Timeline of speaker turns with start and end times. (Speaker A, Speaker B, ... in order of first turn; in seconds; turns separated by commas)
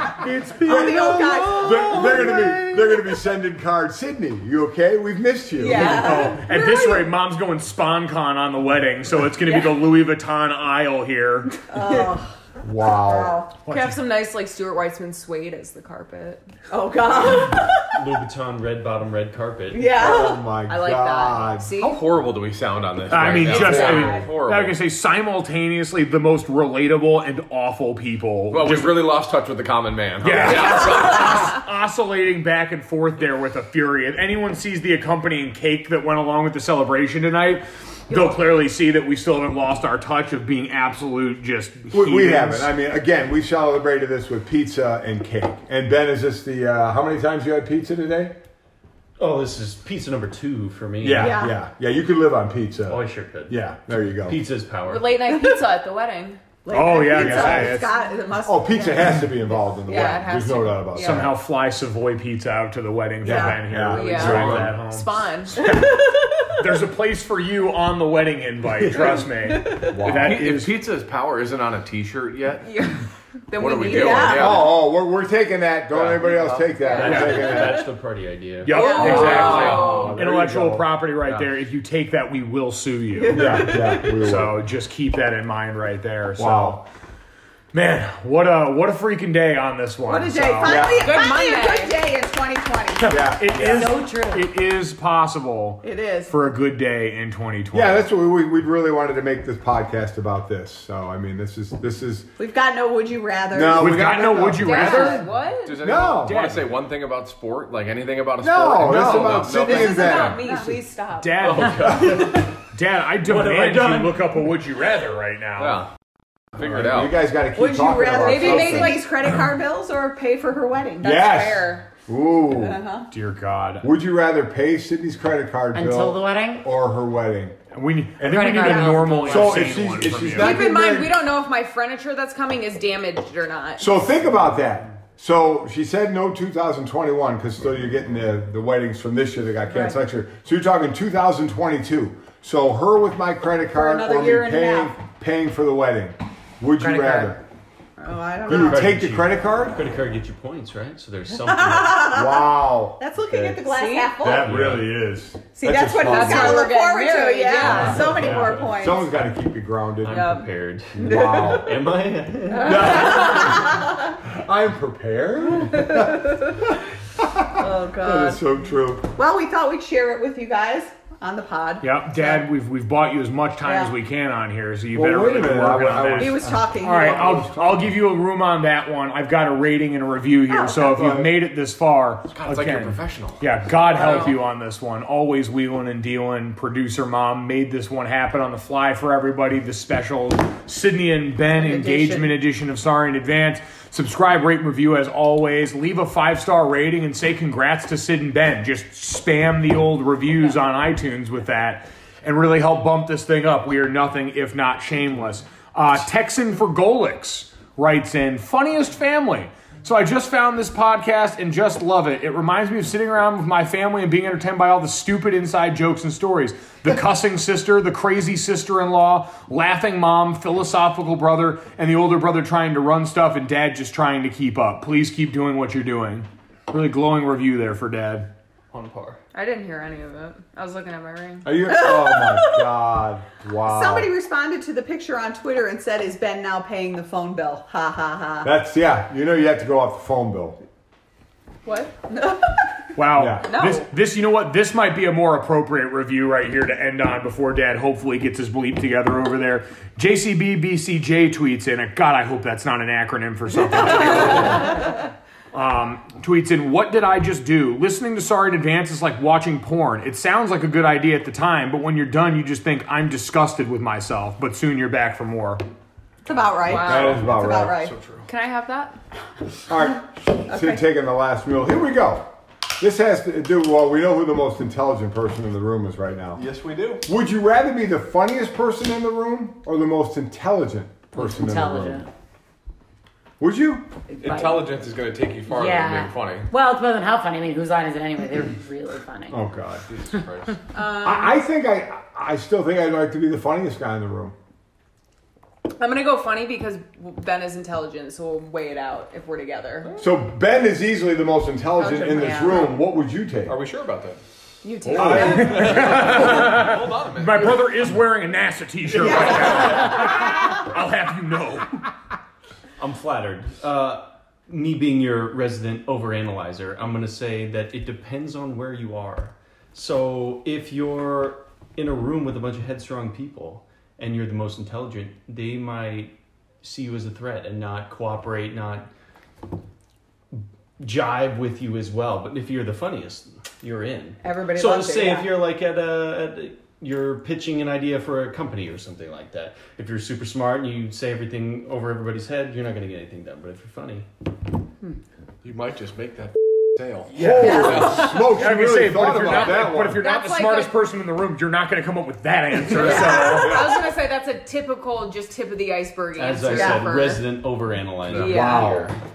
Speaker A: 0.2-1.7, Speaker B: 0.5-6.3, Speaker C: 0.6-3.2, Speaker C: 5.6-7.1, Speaker A: 5.7-11.7, Speaker C: 11.7-13.5, Speaker B: 12.6-13.4, Speaker A: 13.6-14.0, Speaker D: 13.7-16.4, Speaker C: 16.7-18.0, Speaker E: 17.9-20.0, Speaker C: 19.7-20.4, Speaker B: 19.9-21.7, Speaker D: 20.6-22.0, Speaker F: 21.8-24.8, Speaker A: 23.1-29.0, Speaker C: 23.5-24.2, Speaker D: 23.9-24.2, Speaker F: 28.5-31.6, Speaker A: 30.2-42.7, Speaker B: 41.9-48.4, Speaker E: 49.2-51.5, Speaker B: 51.0-54.4, Speaker C: 51.1-51.5, Speaker E: 52.9-53.6, Speaker E: 54.2-55.1, Speaker D: 54.9-56.4, Speaker C: 55.3-55.6, Speaker C: 56.6-60.3, Speaker A: 56.7-57.9, Speaker B: 57.1-57.9, Speaker B: 58.4-61.4, Speaker D: 59.9-61.3, Speaker A: 60.9-70.7, Speaker B: 63.2-64.7, Speaker C: 63.2-63.6, Speaker D: 63.9-65.6, Speaker E: 64.2-64.7, Speaker C: 65.6-66.5, Speaker C: 69.5-69.9, Speaker B: 69.9-70.4, Speaker F: 70.0-72.9, Speaker D: 72.6-74.6, Speaker F: 73.5-74.7, Speaker C: 73.9-74.6, Speaker B: 74.3-77.9, Speaker F: 75.9-76.8, Speaker D: 76.8-77.2, Speaker E: 76.9-78.9, Speaker A: 77.0-77.4, Speaker A: 78.6-86.8, Speaker D: 78.7-80.2, Speaker C: 78.8-79.4, Speaker B: 78.9-80.9, Speaker F: 79.0-80.0, Speaker F: 81.2-81.5, Speaker C: 83.1-84.2, Speaker B: 83.3-84.5, Speaker B: 86.4-86.8, Speaker A: 87.7-91.0, Speaker C: 90.0-93.3, Speaker B: 90.6-91.2, Speaker D: 90.9-92.0, Speaker A: 93.0-98.0, Speaker B: 93.1-93.9, Speaker G: 93.5-94.5, Speaker C: 95.8-96.3, Speaker B: 97.7-102.3, Speaker C: 102.4-104.2, Speaker B: 103.5-105.2, Speaker A: 103.7-105.3, Speaker D: 104.6-105.9, Speaker F: 105.6-110.2, Speaker B: 105.8-106.4, Speaker A: 106.2-106.7, Speaker B: 108.4-110.4, Speaker A: 108.8-109.2, Speaker D: 109.0-112.0, Speaker C: 109.8-111.0, Speaker A: 111.2-115.8, Speaker E: 111.4-112.5, Speaker E: 113.2-114.5, Speaker F: 115.6-115.9, Speaker F: 116.6-117.2, Speaker B: 116.6-119.0, Speaker C: 117.5-121.7, Speaker D: 118.2-119.0, Speaker A: 118.4-119.0, Speaker B: 121.0-122.8, Speaker D: 121.4-121.8, Speaker C: 122.5-123.1, Speaker A: 123.1-123.9, Speaker B: 123.8-127.6, Speaker G: 125.7-126.6, Speaker A: 127.7-130.7, Speaker B: 128.2-131.2, Speaker G: 128.2-129.7, Speaker D: 130.3-133.9, Speaker B: 133.8-147.4, Speaker C: 143.7-144.9, Speaker G: 146.8-147.3, Speaker C: 148.0-149.0, Speaker B: 148.4-149.8, Speaker E: 148.4-152.1, Speaker C: 151.3-154.8, Speaker B: 152.1-156.7, Speaker D: 153.6-154.3, Speaker E: 154.4-154.8, Speaker C: 155.6-159.1, Speaker D: 156.0-158.2, Speaker B: 157.6-160.3, Speaker E: 158.1-158.5, Speaker E: 160.0-163.0, Speaker D: 160.0-160.5, Speaker B: 160.9-161.8, Speaker C: 161.0-161.7, Speaker C: 162.5-164.1, Speaker B: 162.6-169.1, Speaker C: 165.6-166.4, Speaker C: 167.6-168.4, Speaker C: 169.2-172.4, Speaker A: 171.8-228.3, Speaker C: 173.6-173.9, Speaker B: 174.9-177.9, Speaker C: 176.2-177.5, Speaker C: 180.5-181.0, Speaker B: 180.9-181.3, Speaker F: 182.3-183.5, Speaker D: 183.9-184.4, Speaker C: 191.5-192.4, Speaker E: 228.7-229.2, Speaker D: 229.3-231.5, Speaker B: 231.4-234.1, Speaker C: 231.7-232.6, Speaker C: 233.6-238.5, Speaker B: 238.4-240.6, Speaker D: 241.7-241.9, Speaker C: 241.7-242.6, Speaker A: 242.9-254.9, Speaker B: 243.1-243.5, Speaker D: 243.4-243.8, Speaker A: 255.5-265.6, Speaker C: 266.2-267.9, Speaker D: 266.6-267.2, Speaker B: 266.8-267.9, Speaker F: 268.0-268.2, Speaker D: 268.2-269.0, Speaker B: 269.7-276.5, Speaker C: 270.5-270.8, Speaker F: 276.4-277.1, Speaker B: 277.0-282.0, Speaker G: 281.1-282.1, Speaker B: 283.4-283.9, Speaker G: 284.1-284.7, Speaker F: 284.2-286.5, Speaker G: 285.5-289.4, Speaker B: 289.3-289.8, Speaker F: 289.8-290.6, Speaker D: 290.7-291.4, Speaker B: 291.0-294.3, Speaker D: 295.8-299.9, Speaker B: 300.0-303.5, Speaker D: 301.8-302.6, Speaker F: 302.0-302.8, Speaker F: 303.4-304.2, Speaker D: 304.6-305.7, Speaker A: 304.9-311.7, Speaker B: 304.9-305.8, Speaker F: 305.0-307.9, Speaker E: 309.1-310.0, Speaker E: 312.8-328.9, Speaker E: 330.3-344.1, Speaker C: 334.2-335.4, Speaker F: 345.4-348.1, Speaker E: 347.1-348.1, Speaker B: 347.1-350.1, Speaker C: 347.4-347.8, Speaker A: 348.0-353.7, Speaker D: 349.3-350.8, Speaker D: 352.7-357.2, Speaker B: 353.1-353.8, Speaker E: 356.1-358.9, Speaker C: 356.5-356.9, Speaker D: 358.1-358.8, Speaker B: 358.2-358.9